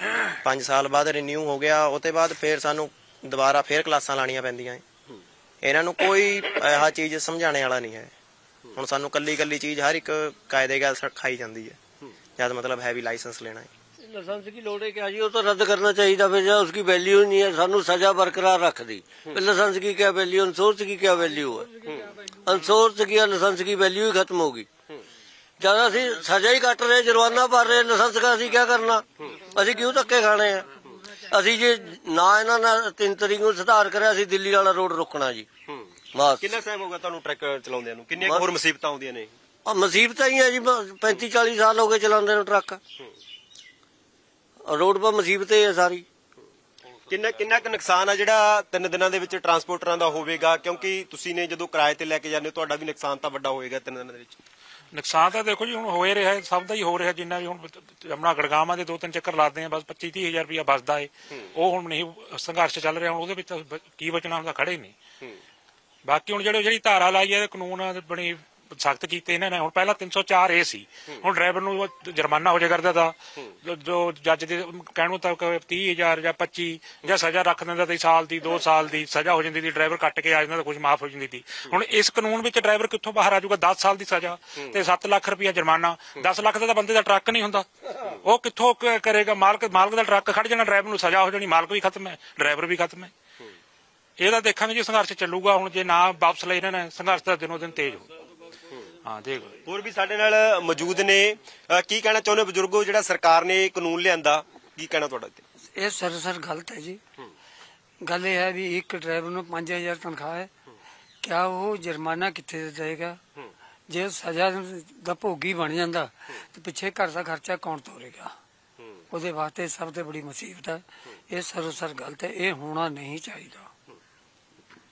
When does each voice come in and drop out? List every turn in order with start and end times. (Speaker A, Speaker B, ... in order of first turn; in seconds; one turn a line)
Speaker A: 0.4-4.8
Speaker A: 5.6-8.1
Speaker A: 8.7-11.8
Speaker A: 12.4-13.7
Speaker B: 14.0-25.0
Speaker B: 25.6-35.5
Speaker B: 36.1-36.5
Speaker C: 36.4-39.3
Speaker B: 39.6-42.8
Speaker B: 44.6-46.0
Speaker C: 47.1-54.4
Speaker D: 54.9-64.9
Speaker D: 66.0-87.7
Speaker D: 88.2-93.1
Speaker D: 94.2-98.1
Speaker D: 99.0-99.6
Speaker C: 99.7-105.4
Speaker E: 105.8-107.0
Speaker E: 108.0-110.5
Speaker E: 111.2-113.2
Speaker E: 113.9-118.3
Speaker E: 119.1-123.7